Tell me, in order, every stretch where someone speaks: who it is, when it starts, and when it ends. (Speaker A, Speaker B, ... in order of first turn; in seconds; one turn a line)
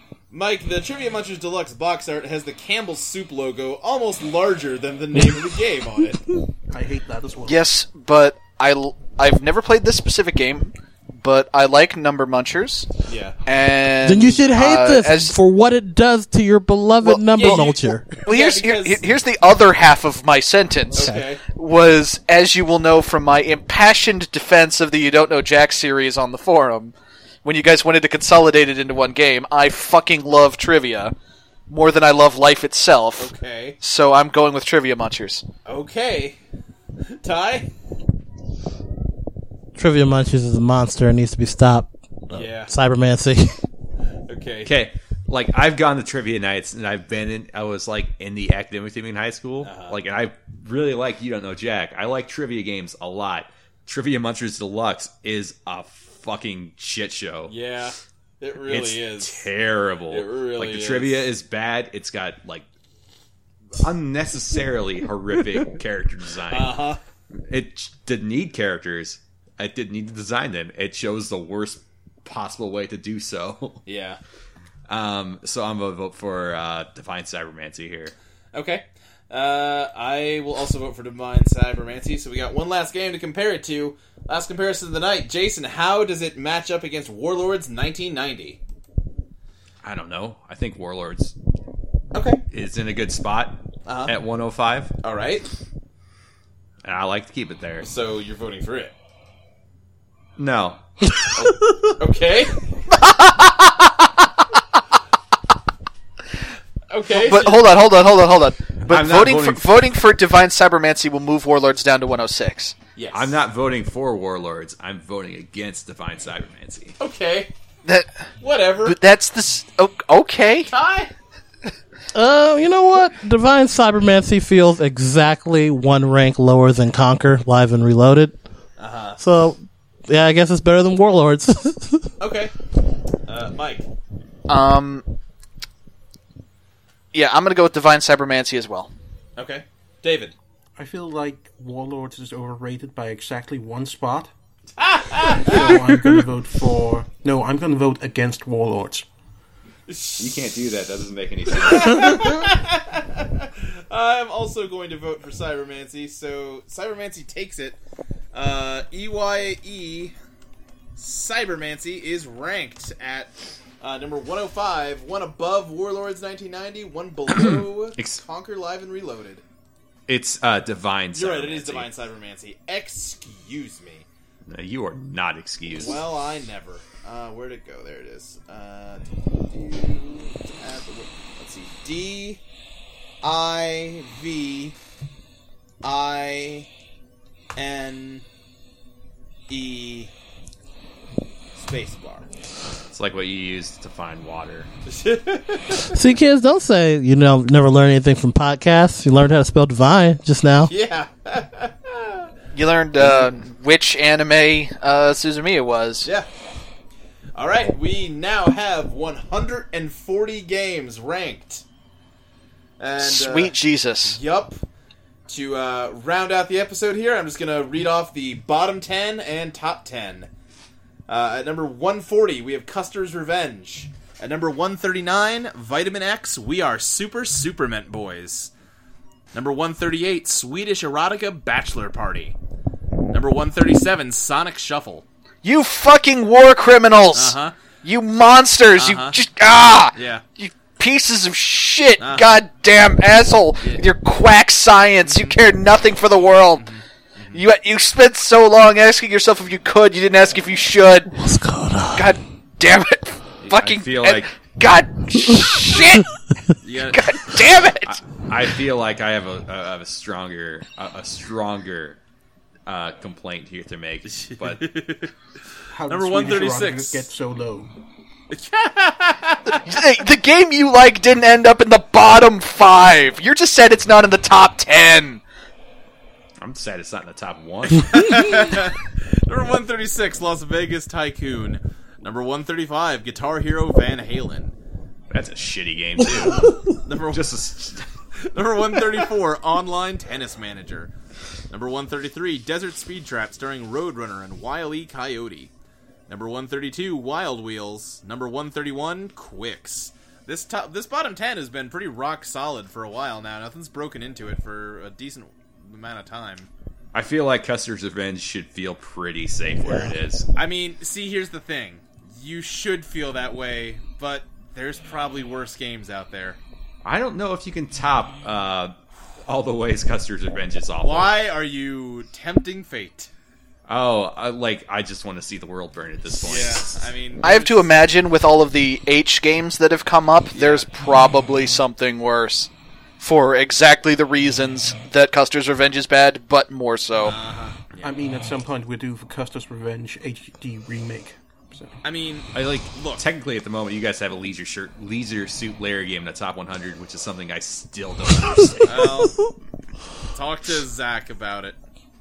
Speaker A: 0.3-6.2
Speaker B: 6.7-7.7
Speaker C: 7.5-12.9
Speaker A: 13.1-13.4
Speaker C: 13.5-15.3
Speaker D: 14.0-18.1
Speaker C: 17.0-17.7
Speaker A: 17.4-19.1
Speaker C: 18.3-31.1
Speaker A: 20.9-21.4
Speaker D: 20.9-21.2
Speaker C: 31.7-35.5
Speaker A: 33.2-33.8
Speaker A: 35.7-36.4
Speaker A: 37.2-37.7
Speaker D: 39.8-43.6
Speaker A: 42.3-42.7
Speaker A: 44.3-44.7
Speaker E: 44.6-57.5
Speaker A: 49.6-50.0
Speaker A: 57.5-59.5
Speaker E: 58.7-62.7
Speaker A: 60.1-61.2
Speaker E: 63.8-66.8
Speaker A: 66.5-67.0
Speaker E: 67.3-73.8
Speaker A: 73.9-74.2
Speaker E: 74.9-78.1
Speaker A: 78.5-88.6
Speaker E: 89.8-91.3
Speaker A: 92.1-92.4
Speaker E: 92.5-94.9
Speaker A: 93.9-94.2
Speaker A: 95.0-95.5
Speaker E: 96.8-97.9
Speaker A: 97.8-98.9
Speaker E: 100.4-101.3
Speaker A: 101.4-102.6
Speaker C: 102.9-103.7
Speaker A: 106.9-107.8
Speaker C: 107.1-112.7
Speaker E: 108.9-109.7
Speaker A: 113.0-113.3
Speaker E: 113.1-117.0
Speaker A: 117.0-117.5
Speaker C: 117.8-118.3
Speaker A: 118.4-119.0
Speaker C: 118.8-120.7
Speaker A: 120.7-121.1
Speaker D: 122.1-128.4
Speaker A: 128.8-129.2
Speaker D: 129.2-132.1
Speaker A: 132.2-132.6
Speaker A: 133.3-133.9
Speaker C: 134.5-135.1
Speaker C: 137.1-138.9
Speaker A: 139.4-140.3
Speaker B: 140.8-144.3
Speaker A: 144.8-145.9
Speaker B: 145.4-149.1
Speaker A: 149.9-150.5
Speaker E: 150.2-152.5
Speaker A: 151.5-157.8
Speaker A: 158.3-160.1
Speaker A: 161.0-169.4
Speaker E: 167.4-168.2
Speaker E: 170.1-171.9
Speaker A: 171.1-174.1
Speaker E: 174.5-176.0
Speaker A: 175.8-182.4
Speaker A: 183.2-184.8
Speaker A: 185.8-186.7
Speaker A: 187.6-188.2
Speaker A: 189.5-190.1
Speaker A: 191.6-192.3
Speaker E: 192.9-194.7
Speaker A: 194.9-196.0
Speaker D: 195.9-200.7
Speaker A: 200.7-202.3
Speaker C: 202.5-206.1
Speaker A: 203.0-203.3
Speaker A: 207.3-211.6
Speaker A: 212.8-214.6
Speaker C: 213.0-214.2
Speaker A: 215.3-220.3
Speaker A: 221.1-228.5
Speaker A: 229.3-232.3
Speaker A: 233.1-235.1
Speaker C: 235.4-246.7
Speaker A: 237.1-237.6
Speaker A: 238.8-239.2
Speaker A: 239.9-240.2
Speaker A: 242.0-242.4
Speaker A: 245.0-245.4
Speaker A: 246.6-247.4
Speaker C: 247.3-251.2
Speaker D: 251.2-252.1
Speaker C: 251.9-256.1
Speaker E: 253.4-254.3
Speaker A: 256.6-257.3
Speaker C: 256.7-258.0
Speaker E: 257.8-262.0
Speaker E: 262.7-264.7
Speaker A: 264.1-265.1
Speaker B: 265.7-267.7
Speaker A: 265.9-267.1
Speaker A: 268.3-269.8
Speaker C: 269.6-275.2
Speaker E: 276.4-278.1
Speaker A: 277.7-284.5
Speaker E: 285.1-287.9
Speaker A: 286.7-287.3
Speaker A: 288.2-290.9
Speaker A: 291.5-295.5
Speaker A: 296.1-306.5
Speaker E: 306.9-310.3
Speaker A: 310.4-316.4
Speaker E: 316.8-318.7
Speaker E: 319.3-321.1
Speaker A: 320.8-323.1
Speaker E: 323.7-326.9
Speaker A: 326.2-327.7
Speaker C: 327.2-337.2
Speaker A: 330.4-330.7
Speaker A: 337.0-337.9
Speaker B: 337.8-341.8
Speaker A: 341.8-343.0
Speaker E: 342.3-349.1
Speaker A: 348.6-349.2
Speaker A: 350.1-351.6